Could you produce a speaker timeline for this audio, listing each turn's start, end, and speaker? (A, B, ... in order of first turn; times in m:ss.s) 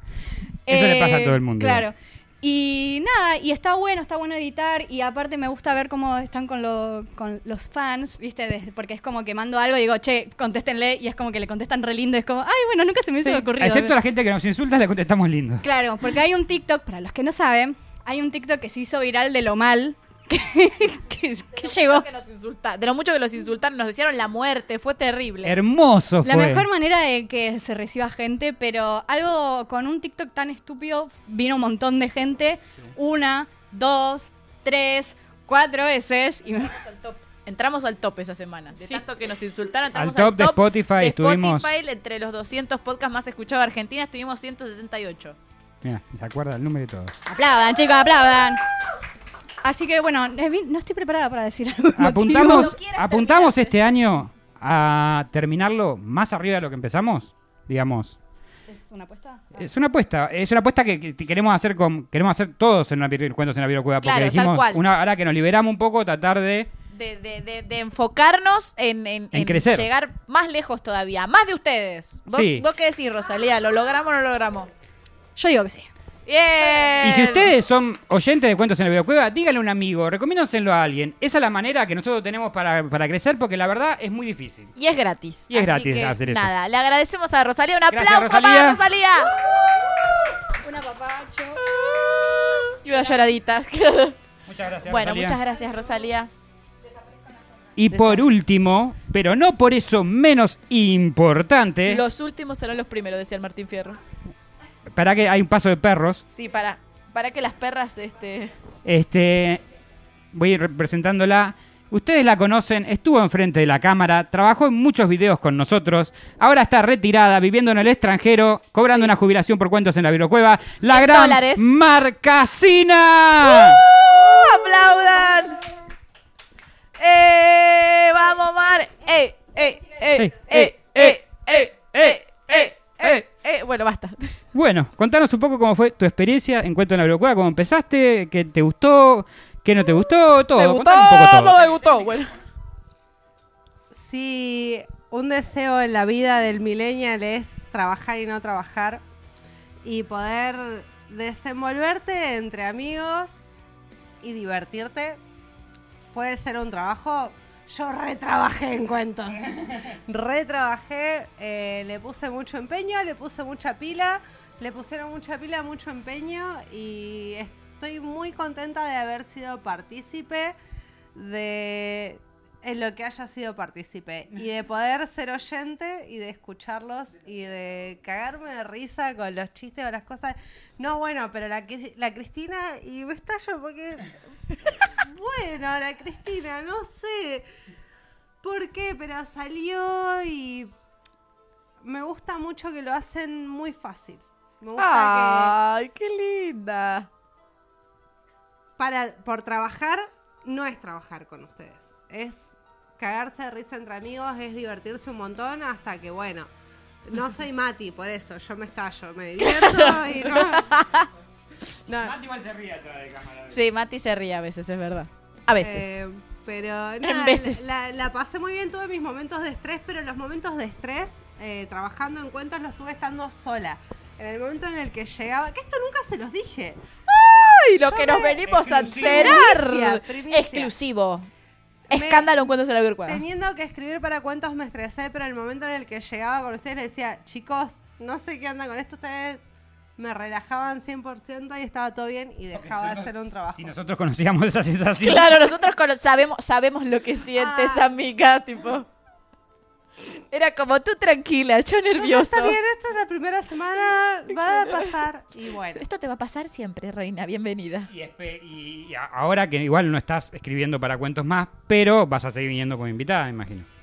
0:00.7-0:13.9 A
0:00.7-0:01.8 B
0:13.2-0:15.6 B
0:15.6-0:22.1 A
0:21.6-0:25.5 C
0:25.4-0:26.6 B
0:26.2-0:36.8 A
0:36.7-0:45.4 C
0:39.9-0:41.7 B
0:45.8-0:47.1 B
0:47.2-0:48.6 A
0:49.6-0:52.7 A
0:52.0-0:58.2 B
0:52.4-0:53.7 C
0:58.7-0:59.6 A
0:59.6-1:06.7 B
1:04.0-1:04.8 C
1:06.9-1:14.7 C
1:09.3-1:09.9 B
1:12.3-1:12.6 B
1:15.4-1:15.9 A
1:16.2-1:17.5 C
1:17.0-1:24.7 B
1:24.8-1:30.2 C
1:25.5-1:26.5 B
1:27.9-1:28.8 B
1:30.6-1:31.6 A
1:31.6-1:34.2 C
1:32.8-1:33.2 A
1:34.5-1:35.4 B
1:34.9-1:36.3 C
1:37.0-1:37.5 A
1:37.8-1:42.0 B
1:37.9-1:38.2 C
1:41.8-1:44.0 C
1:44.9-1:46.2 B
1:46.3-1:48.5 C
1:48.8-1:49.6 B
1:50.3-2:03.8 B
2:00.9-2:01.6 C
2:03.4-2:05.6 C
2:07.0-2:14.4 C
2:10.1-2:13.2 B
2:14.5-2:22.4 B
2:20.5-2:22.3 C
2:23.9-2:29.0 D
2:29.8-2:33.5 D
2:34.2-2:35.2 D
2:36.1-2:50.6 D
2:51.1-3:04.1 D
3:04.8-3:07.5 D
3:08.4-3:10.7 D
3:11.8-3:15.6 D
3:14.8-3:17.1 C
3:18.8-3:26.5 D
3:27.0-3:30.7 D
3:29.4-3:31.1 C
3:31.9-3:32.2 D
3:32.0-3:33.6 B
3:33.5-3:35.9 C
3:35.6-3:46.8 D
3:37.0-3:37.6 C
3:47.1-3:51.3 C
3:47.8-3:48.4 D
3:48.5-3:49.4 B
3:48.9-3:50.7 D
3:51.9-3:53.2 C
3:51.9-3:52.5 D
3:53.0-3:59.4 D
4:00.0-4:03.7 D
4:02.5-4:05.4 B
4:05.0-4:08.9 C
4:07.4-4:07.9 D
4:10.3-4:12.6 C
4:12.0-4:15.8 D
4:14.3-4:14.9 C
4:15.7-4:17.9 C
4:17.9-4:23.7 B